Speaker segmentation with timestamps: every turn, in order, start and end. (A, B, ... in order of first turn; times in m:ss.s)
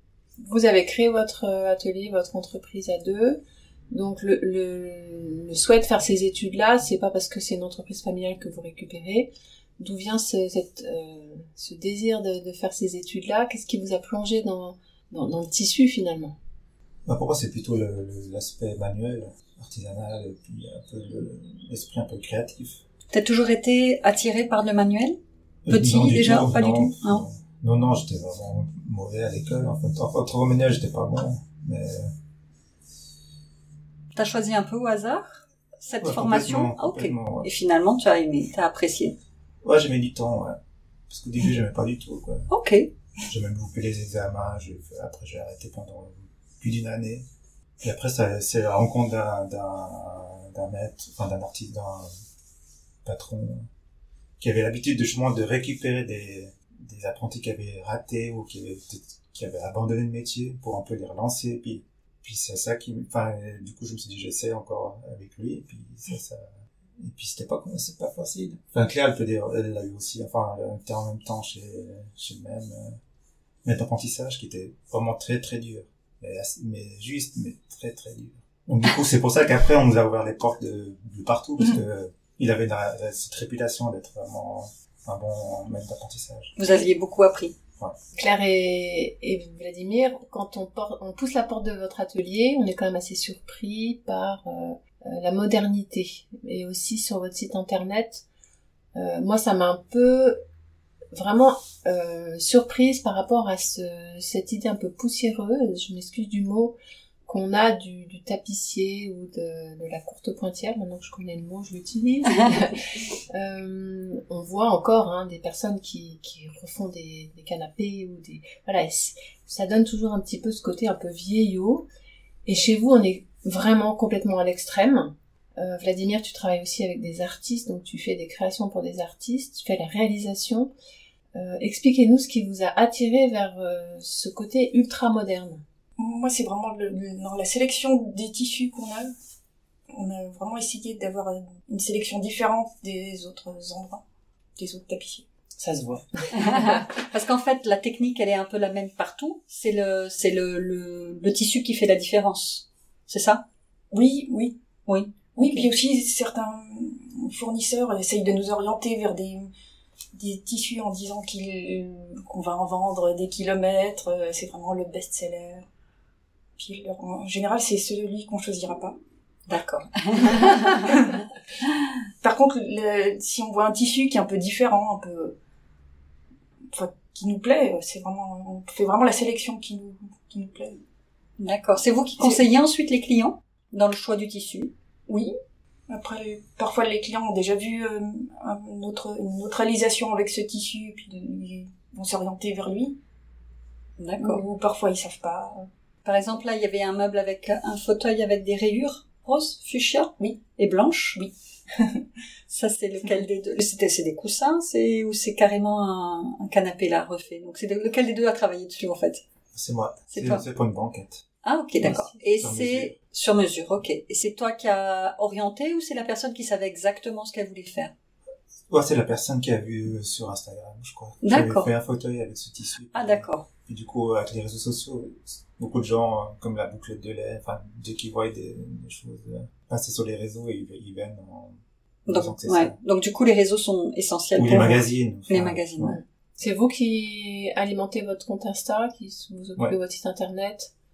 0:00.4-0:16.4 A
0:17.0-0:22.8 B
0:23.1-0:25.2 C
0:25.6-0:32.1 B
0:25.7-0:27.2 C
0:34.1-0:39.2 C
0:36.0-0:37.5 B
0:39.6-0:40.6 B
0:41.1-0:42.5 B
0:42.5-0:42.9 C
0:43.3-0:47.2 B
0:47.8-0:52.1 B
0:53.0-0:53.7 B
0:54.4-1:13.0 B
1:13.6-1:26.5 B
1:26.6-1:27.5 C
1:28.1-1:38.2 A
1:38.9-1:40.4 A
1:41.1-2:01.9 A
2:02.4-2:10.7 A
2:11.3-2:15.6 A
2:16.0-2:19.1 D
2:19.9-2:24.0 D
2:24.6-2:25.2 D
2:25.6-2:26.7 A
2:26.3-2:33.4 C
2:33.9-2:34.6 D
2:34.9-2:35.7 C
2:35.4-2:39.5 D
2:40.1-2:45.7 D
2:46.6-2:49.0 D
2:49.5-2:51.2 C
2:50.2-2:51.2 D
2:52.2-2:55.4 D
2:56.7-3:00.8 D
3:01.4-3:04.7 C
3:05.9-3:13.0 D
3:14.0-3:14.4 C
3:14.2-3:15.7 D
3:16.0-3:21.2 C
3:21.1-3:22.0 D
3:22.5-3:29.2 C
3:29.5-3:31.2 B
3:30.1-3:30.4 C
3:31.4-3:37.9 C
3:31.8-3:32.2 A
3:32.4-3:32.9 B
3:38.7-3:52.8 B
3:41.2-3:41.7 C
3:42.9-3:43.5 C
3:52.1-3:56.0 C
3:54.4-3:56.0 B
3:55.8-4:00.7 A